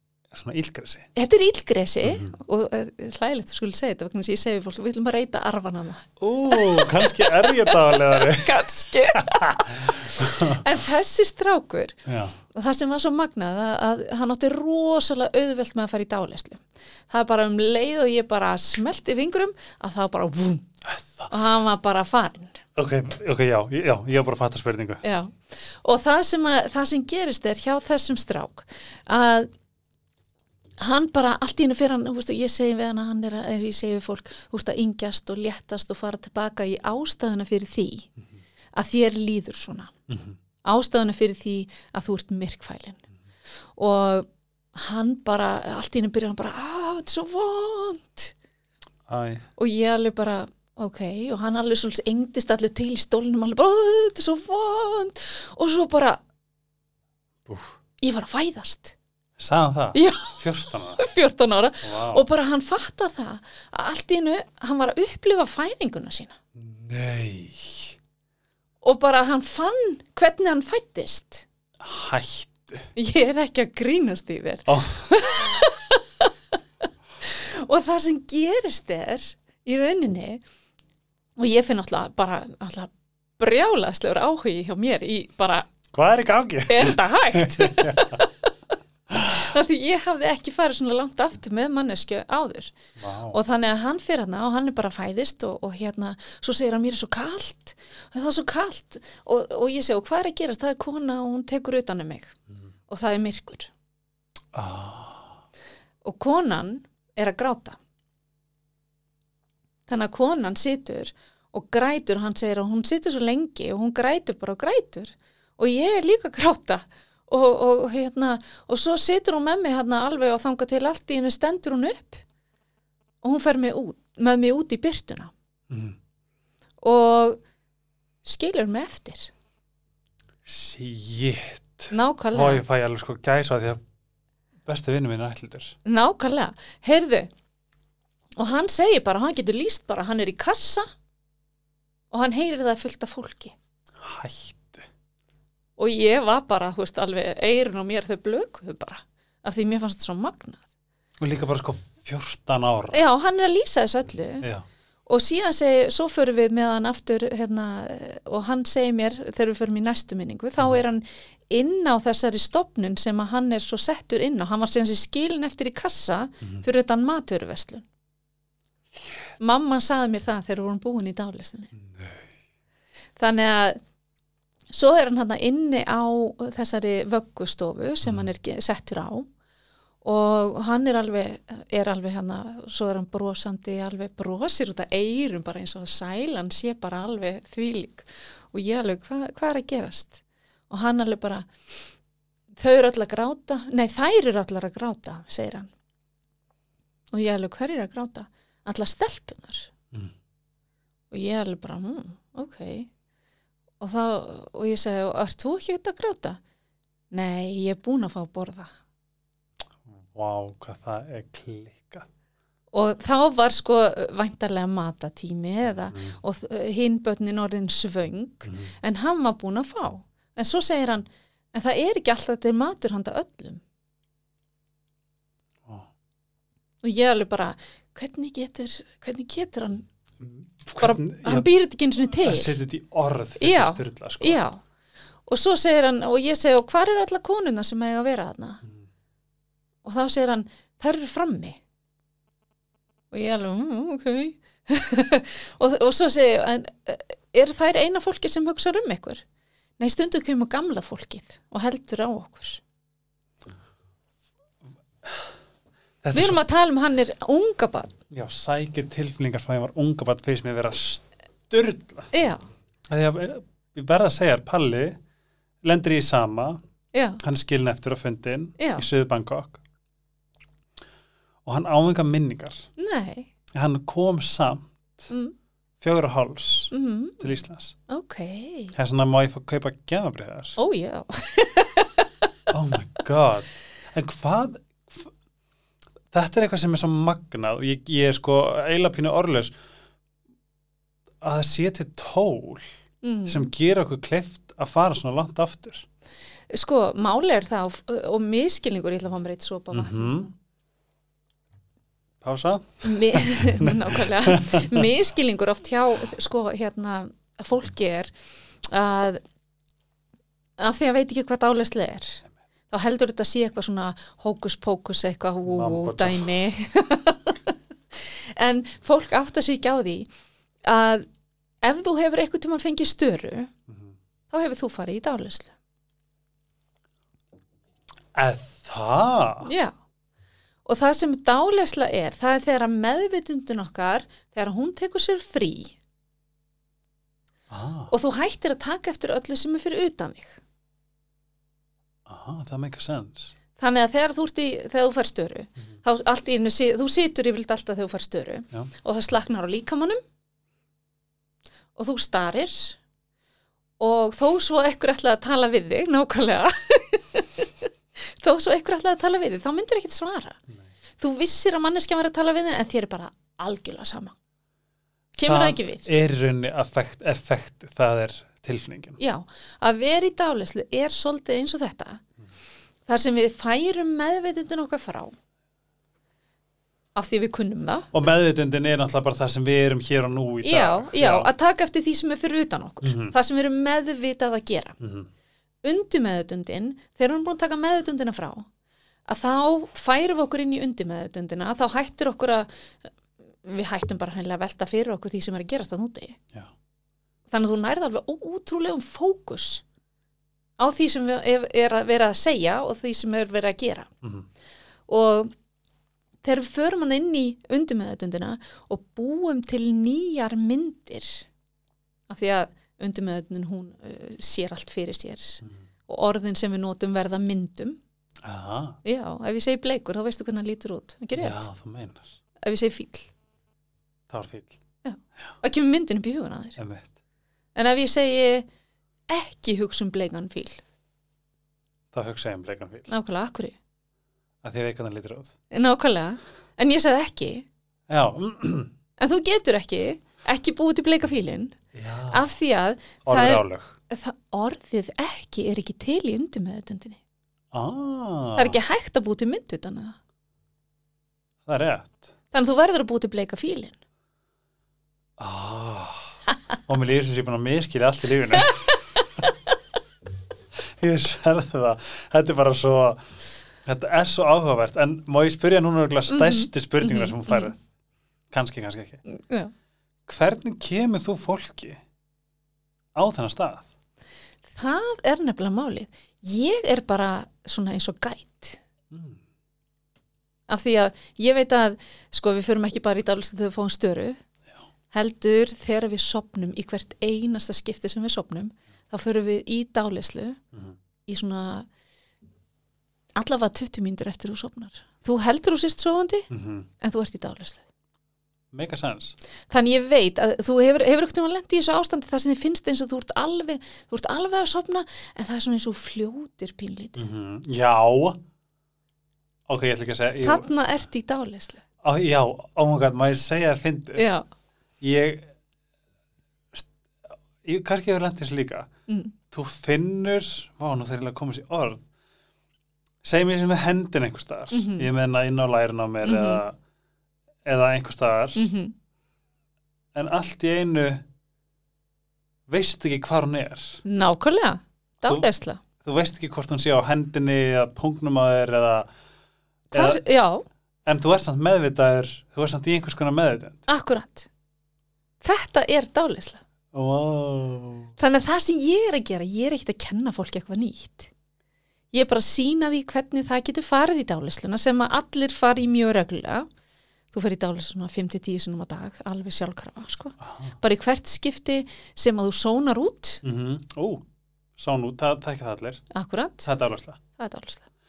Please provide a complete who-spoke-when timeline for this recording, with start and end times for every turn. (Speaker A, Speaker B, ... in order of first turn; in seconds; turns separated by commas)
Speaker A: 0.3-1.1, Speaker B: 1.1-20.7, Speaker A: 2.0-2.3, Speaker A: 6.2-10.6, Speaker A: 12.1-12.3, Speaker A: 20.8-21.3, Speaker B: 21.3-22.6, Speaker A: 22.8-25.0, Speaker B: 25.0-29.5, Speaker B: 30.8-38.1, Speaker B: 38.7-39.9, Speaker A: 40.1-40.4, Speaker B: 40.6-43.0, Speaker B: 43.8-48.3, Speaker A: 49.1-49.5, Speaker B: 49.6-56.2, Speaker A: 57.5-57.8, Speaker B: 58.0-58.9, Speaker A: 59.4-61.0, Speaker B: 59.9-66.3, Speaker A: 61.8-62.2, Speaker A: 66.5-68.0, Speaker B: 68.8-71.5, Speaker A: 71.8-72.9, Speaker B: 72.9-76.3, Speaker A: 74.7-75.5, Speaker B: 77.2-80.4, Speaker B: 81.4-85.7, Speaker A: 85.9-88.2, Speaker B: 86.7-88.7, Speaker A: 89.1-89.5, Speaker B: 89.3-92.8, Speaker A: 93.0-93.4, Speaker B: 93.3-102.3, Speaker B: 102.9-103.7, Speaker A: 104.5-105.4, Speaker B: 106.0-107.8, Speaker B: 109.9-122.2, Speaker B: 123.2-125.3, Speaker A: 125.7-126.0, Speaker B: 126.8-127.4, Speaker B: 128.2-129.3, Speaker A: 130.4-133.8, Speaker B: 131.9-132.6, Speaker A: 134.7-135.8, Speaker B: 135.8-137.3, Speaker B: 138.4-140.9, Speaker B: 142.1-143.5, Speaker A: 144.0-144.8, Speaker B: 145.8-150.6, Speaker A: 151.2-153.0, Speaker B: 152.9-154.5, Speaker B: 155.1-167.8, Speaker B: 169.4-171.7, Speaker A: 171.8-172.2, Speaker B: 173.2-173.8, Speaker B: 174.7-179.3, Speaker A: 178.0-178.3, Speaker B: 180.0-191.5, Speaker B: 192.6-195.7, Speaker B: 197.1-199.7, Speaker B: 201.1-202.9, Speaker B: 203.8-206.4, Speaker B: 207.1-208.7, Speaker A: 209.9-212.1, Speaker B: 212.7-223.6, Speaker A: 215.9-216.2, Speaker A: 218.4-218.7, Speaker B: 226.8-229.8, Speaker A: 230.2-231.5, Speaker B: 230.8-232.6, Speaker A: 232.0-234.4, Speaker B: 233.4-234.6, Speaker B: 235.3-238.6, Speaker B: 239.8-241.6, Speaker B: 243.1-249.2, Speaker B: 249.8-252.6, Speaker A: 255.0-255.3, Speaker A: 256.0-256.4, Speaker B: 256.1-257.9, Speaker A: 258.1-262.1, Speaker B: 262.1-262.4, Speaker A: 262.9-265.0, Speaker A: 265.6-266.6, Speaker B: 266.9-267.2, Speaker A: 267.2-269.6, Speaker B: 268.6-268.8, Speaker A: 271.4-272.7, Speaker B: 272.8-273.3, Speaker A: 273.5-275.1, Speaker A: 275.8-277.7, Speaker B: 276.7-277.2, Speaker B: 277.9-278.7, Speaker A: 278.7-280.6, Speaker B: 280.6-282.1, Speaker A: 282.5-285.1, Speaker A: 286.1-289.5, Speaker A: 291.2-292.6, Speaker B: 293.0-293.5, Speaker A: 293.2-295.9, Speaker B: 296.5-300.3, Speaker A: 299.7-300.3, Speaker A: 302.2-304.9, Speaker B: 302.8-308.1, Speaker B: 308.6-309.2, Speaker B: 310.6-320.1, Speaker A: 315.4-316.3, Speaker B: 320.6-321.1, Speaker B: 321.6-323.5, Speaker A: 323.7-323.9, Speaker B: 324.3-325.5, Speaker A: 328.1-329.5, Speaker B: 329.4-329.7, Speaker B: 330.6-335.8, Speaker A: 337.5-337.9, Speaker B: 337.9-340.4, Speaker A: 342.1-343.3, Speaker B: 343.6-350.0, Speaker B: 351.7-352.8, Speaker B: 353.8-360.4, Speaker B: 361.0-364.1, Speaker B: 365.1-365.9, Speaker A: 365.2-369.0, Speaker B: 369.0-372.0, Speaker B: 372.9-375.1, Speaker B: 376.9-377.9, Speaker A: 377.9-381.3, Speaker B: 380.4-384.8, Speaker A: 382.8-383.1, Speaker A: 384.8-385.1, Speaker B: 385.6-388.5, Speaker B: 389.1-392.5, Speaker B: 393.4-396.2, Speaker B: 397.3-399.6, Speaker B: 400.6-403.9, Speaker A: 404.0-404.3, Speaker B: 404.9-405.3, Speaker B: 406.2-411.2, Speaker B: 412.1-417.8, Speaker A: 418.2-418.8, Speaker B: 418.8-421.4, Speaker A: 421.1-422.1, Speaker B: 422.4-423.1, Speaker A: 424.1-424.5, Speaker B: 424.8-426.6, Speaker A: 426.6-426.9, Speaker B: 427.5-428.4, Speaker B: 429.1-430.6, Speaker A: 431.9-432.9, Speaker B: 432.9-433.6, Speaker A: 434.4-435.3, Speaker B: 435.5-437.4, Speaker A: 437.9-438.7, Speaker B: 439.0-441.6, Speaker A: 441.7-442.3, Speaker B: 442.1-447.0, Speaker A: 443.0-443.7, Speaker A: 447.5-448.6, Speaker B: 448.4-449.9, Speaker A: 451.4-452.1, Speaker B: 452.3-453.8, Speaker A: 455.2-456.1, Speaker A: 456.7-458.6, Speaker B: 458.3-459.3, Speaker A: 460.7-463.0, Speaker A: 463.6-467.6, Speaker B: 466.1-467.5, Speaker A: 468.3-469.0, Speaker B: 469.1-469.5, Speaker A: 470.1-471.8, Speaker A: 472.9-473.7, Speaker B: 474.5-478.6, Speaker A: 478.9-479.2, Speaker B: 480.5-484.2, Speaker B: 484.9-490.4, Speaker B: 491.1-491.7, Speaker B: 493.1-496.3, Speaker A: 496.3-496.7, Speaker B: 496.8-497.6, Speaker A: 498.5-499.1, Speaker B: 499.5-507.0, Speaker A: 506.9-508.2, Speaker A: 509.5-510.5, Speaker B: 510.2-511.6, Speaker A: 511.8-514.0, Speaker B: 514.0-514.2, Speaker A: 514.8-515.3, Speaker A: 517.4-518.7, Speaker B: 518.9-519.1, Speaker A: 519.3-521.8, Speaker A: 523.0-526.6, Speaker B: 524.5-524.9, Speaker B: 526.0-526.4, Speaker A: 527.4-528.5, Speaker B: 528.4-528.7, Speaker A: 529.9-531.0, Speaker A: 532.5-533.8, Speaker B: 533.8-535.6, Speaker A: 535.8-538.9, Speaker A: 539.7-540.0, Speaker B: 539.7-540.4, Speaker A: 540.9-543.6, Speaker B: 543.7-544.3, Speaker B: 545.2-546.4, Speaker A: 546.7-547.9, Speaker B: 548.0-551.1, Speaker B: 551.9-556.5, Speaker B: 557.1-563.2, Speaker A: 560.2-560.5, Speaker A: 563.2-564.0, Speaker A: 564.6-565.8, Speaker B: 565.9-566.5, Speaker A: 566.4-567.0, Speaker B: 567.1-567.7